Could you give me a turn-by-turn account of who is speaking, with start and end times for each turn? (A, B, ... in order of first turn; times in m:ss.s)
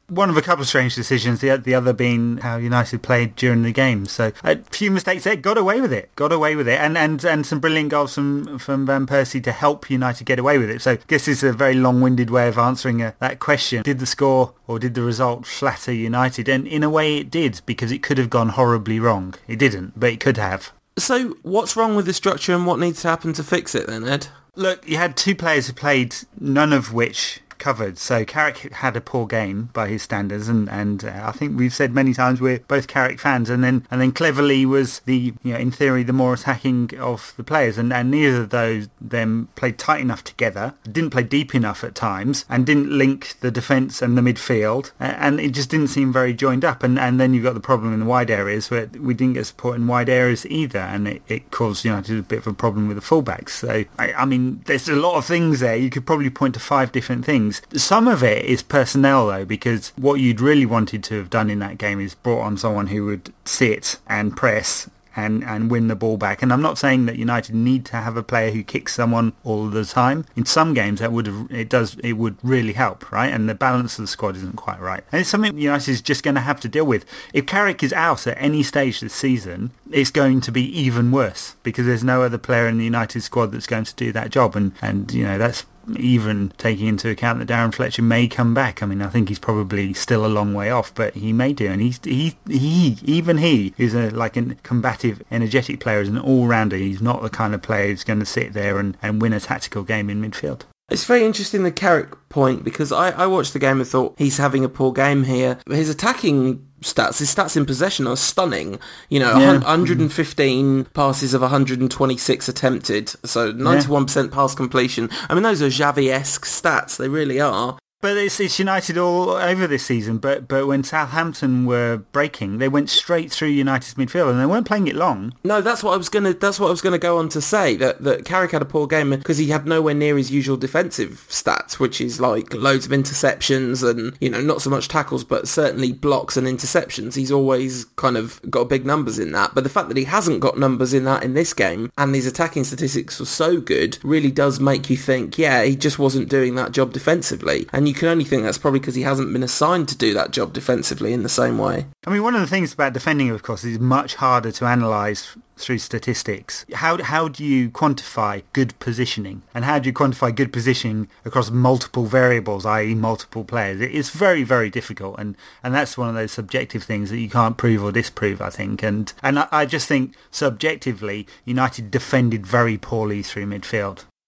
0:00.1-0:20.7 A
0:21.0-0:24.3 B
0:24.6-1:40.6 A
1:40.9-1:57.8 B
1:49.3-1:50.1 A
1:53.6-1:53.9 A
1:58.0-2:05.3 A
2:05.4-2:31.9 B
2:32.0-2:54.0 A